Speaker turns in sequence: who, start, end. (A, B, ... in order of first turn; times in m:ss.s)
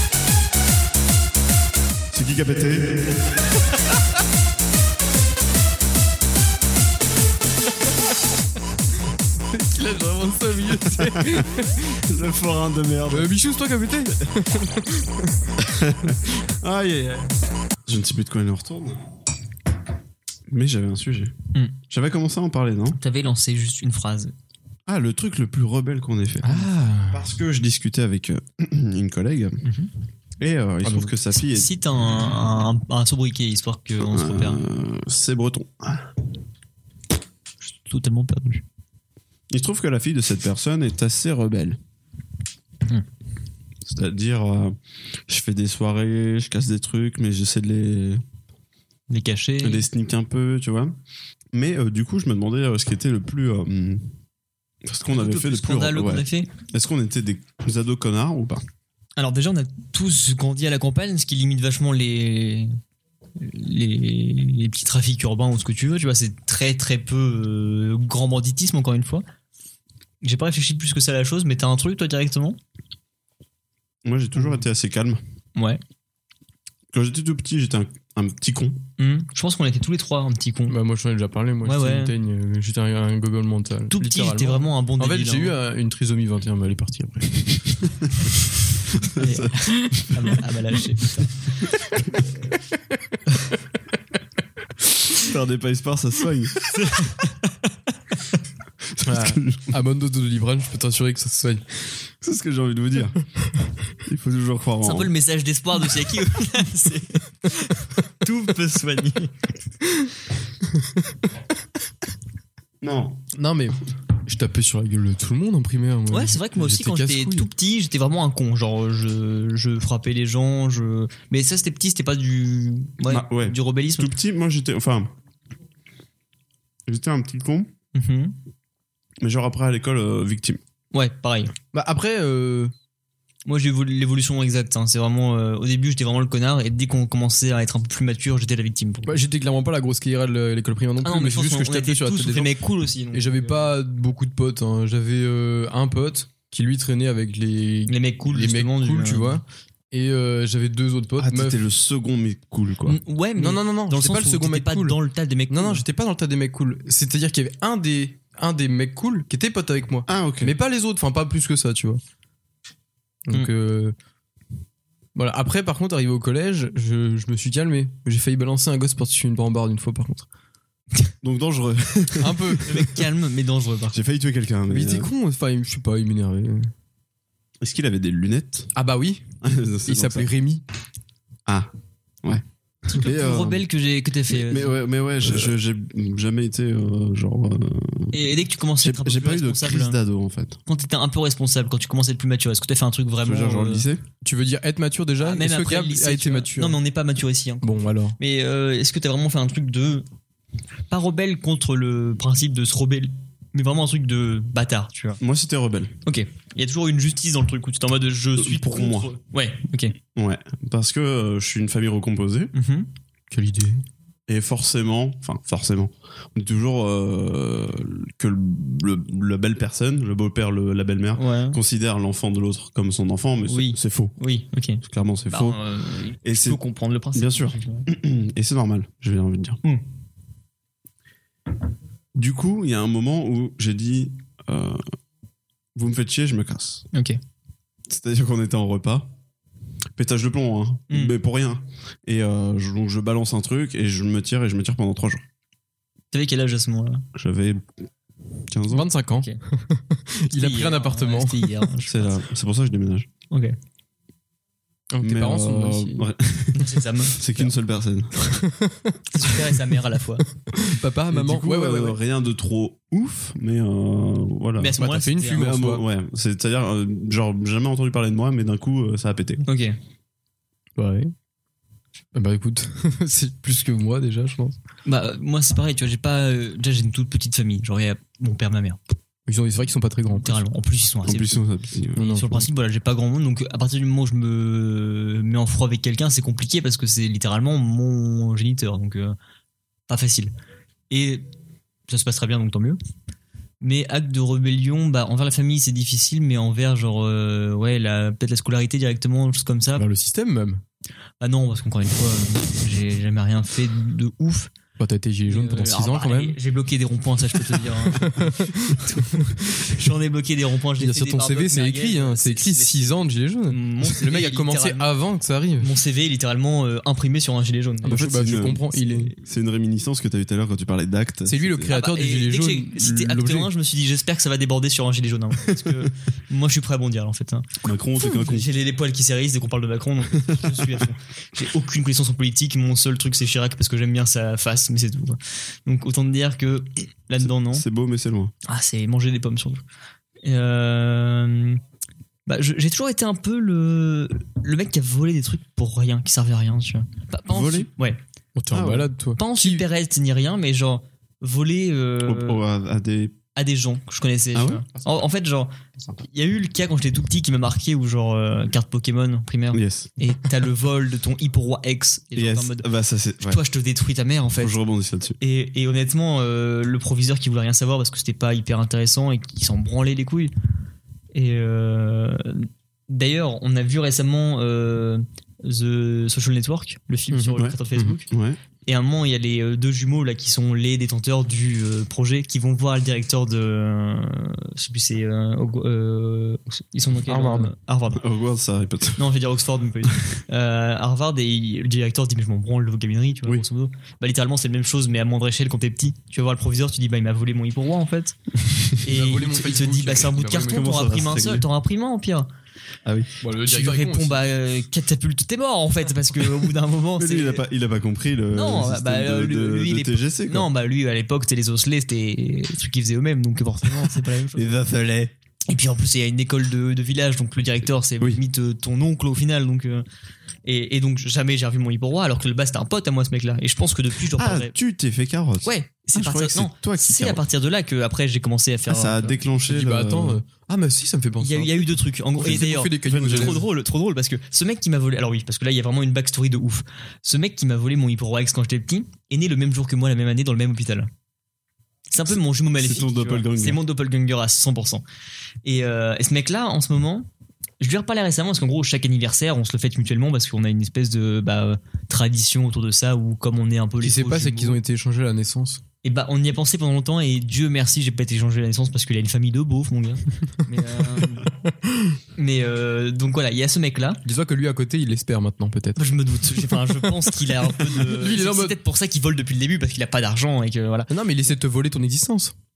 0:02.1-0:03.1 A
0:09.4-0:12.0 B
0:11.0-0:11.5 A
0:12.0-0:13.3 A
0:13.1-0:15.5 B
0:15.6-0:17.3 A
0:17.8-0:19.0 A
0:20.5-0:21.3 A
0:21.9-0:23.0 A
0:22.9-0:24.3 C
0:24.9-0:29.6 A
0:26.4-0:27.3 B
0:29.6-0:29.9 C
0:30.4-0:31.7 A
0:30.8-0:31.1 B
0:31.3-0:34.6 C
0:34.0-0:36.1 A
0:37.6-0:38.6 C
0:39.5-0:41.8 A
0:43.8-0:44.8 A
0:45.3-0:48.2 A
0:49.1-0:49.8 C
0:49.6-0:50.9 A
0:51.5-0:54.1 A
0:54.8-0:58.6 A
0:55.0-0:56.5 C
0:59.2-1:02.7 C
1:03.4-1:09.2 C
1:10.2-1:12.6 C
1:14.0-1:15.2 A
1:16.9-1:18.8 A
1:19.0-1:20.8 C
1:20.7-1:27.8 B
1:21.6-1:22.1 C
1:23.9-1:25.6 C
1:29.0-1:30.4 A
1:29.2-1:31.4 C
1:35.1-1:36.6 A
1:36.7-1:37.5 C
1:39.0-1:39.7 A
1:39.0-1:41.8 B
1:42.2-1:43.2 A
1:44.0-1:45.1 A
1:44.8-1:49.3 C
1:50.7-1:51.0 B
1:52.8-1:53.2 A
1:53.3-1:57.5 B
1:56.1-2:04.1 C
2:03.1-2:05.1 A
2:06.9-2:07.7 A
2:07.9-2:08.4 C
2:09.2-2:10.6 A
2:10.9-2:11.5 C
2:11.7-2:12.7 B
2:13.4-2:19.2 C
2:19.0-2:22.5 B
2:21.0-2:23.7 C
2:23.1-2:31.6 B
2:27.9-2:29.4 C
2:31.2-2:33.0 A
2:32.9-2:35.8 C
2:33.4-2:42.0 B
2:40.1-2:40.5 A
2:43.3-2:43.9 B
2:45.1-2:50.3 B
2:51.2-2:52.6 A
2:52.2-2:52.8 B
2:52.6-2:54.0 C
2:53.9-2:55.1 A
2:54.7-2:56.7 B
2:57.6-2:58.7 A
2:58.7-2:59.2 B
2:59.4-3:00.3 A
2:59.8-3:00.6 B
3:02.2-3:03.6 A
3:02.9-3:04.8 C
3:04.3-3:08.2 A
3:08.1-3:10.0 C
3:08.8-3:10.6 A
3:10.6-3:13.8 C
3:13.2-3:14.0 A
3:14.2-3:16.8 B
3:15.2-3:17.6 C
3:17.6-3:18.2 B
3:18.2-3:20.0 C
3:20.9-3:25.2 C
3:25.2-3:25.9 A
3:26.0-3:29.9 C
3:28.4-3:29.1 A
3:30.1-3:32.5 A
3:32.5-3:32.9 C
3:33.3-3:33.8 B
3:34.3-3:44.1 A
3:41.2-3:41.6 C
3:43.5-3:47.9 C
3:44.8-3:45.6 A
3:46.2-3:46.6 A
3:47.1-3:49.6 A
3:52.1-3:54.8 A
3:55.7-3:56.8 A
3:56.9-3:57.2 C
3:57.9-3:59.1 A
4:00.0-4:05.2 A
4:06.1-4:07.0 C
4:07.1-4:07.7 A
4:08.5-4:08.9 A
4:08.7-4:11.6 B
4:10.3-4:12.2 C
4:11.9-4:13.1 A
4:14.9-4:16.1 B
4:15.0-4:18.2 A
4:16.6-4:17.2 C
4:18.2-4:19.4 B
4:19.1-4:20.2 C
4:20.5-4:22.0 B
4:21.1-4:24.8 A
4:24.6-4:25.6 C
4:24.8-4:25.8 B
4:25.3-4:29.4 A
4:29.4-4:29.8 C
4:30.8-4:31.1 B
4:32.1-4:34.6 B
4:34.8-4:38.8 C
4:39.3-4:40.4 B
4:40.1-4:41.4 C
4:41.0-4:42.0 A
4:42.0-4:42.5 B
4:42.0-4:49.1 C
4:49.9-4:50.3 C
4:50.9-4:51.2 C
4:51.9-4:52.8 C
4:53.6-4:59.8 C
4:59.8-5:00.6 B
5:01.2-5:04.5 C
5:04.8-5:06.4 B
5:05.3-5:14.9 C
5:07.6-5:09.5 B
5:10.8-5:15.7 B
5:15.6-5:18.2 C
5:17.8-5:19.1 B
5:17.9-5:21.7 A
5:21.2-5:23.5 B
5:21.7-5:37.6 C
5:27.6-5:28.5 A
5:37.2-5:38.3 A
5:38.4-5:39.6 C
5:40.2-5:41.6 C
5:42.2-5:48.0 C
5:47.3-5:47.7 A
5:48.4-5:49.6 B
5:48.5-5:48.9 A
5:49.2-5:52.4 C
5:52.0-5:53.2 A
5:53.3-6:02.7 C
5:54.3-5:54.6 A
5:59.5-5:59.9 A
6:02.2-6:03.4 A
6:03.2-6:04.5 C
6:04.4-6:05.2 A
6:05.2-6:10.3 C
6:11.1-6:18.1 C
6:17.1-6:17.9 B
6:18.1-6:18.4 A
6:18.6-6:28.0 C
6:27.0-6:27.5 B
6:28.0-6:29.0 A
6:29.0-6:38.2 C
6:38.8-6:42.3 C
6:38.9-6:40.8 B
6:40.4-6:41.4 A
6:43.2-6:44.3 B
6:43.4-6:47.4 C
6:47.0-6:50.5 A
6:48.3-6:54.6 C
6:54.3-6:55.1 A
6:55.5-6:59.8 C
7:00.4-7:04.5 C
7:04.2-7:07.2 A
7:05.4-7:09.2 C
7:08.7-7:10.2 A
7:09.4-7:13.4 B
7:11.2-7:20.9 C
7:12.8-7:13.4 A
7:21.9-7:24.8 C
7:22.6-7:23.6 A
7:25.4-7:27.1 C
7:27.6-7:34.6 C
7:33.8-7:35.6 B
7:35.8-7:41.3 C
7:41.4-7:42.0 B
7:42.2-7:44.0 C
7:44.0-7:48.6 B
7:45.8-7:50.9 C
7:50.9-7:52.3 B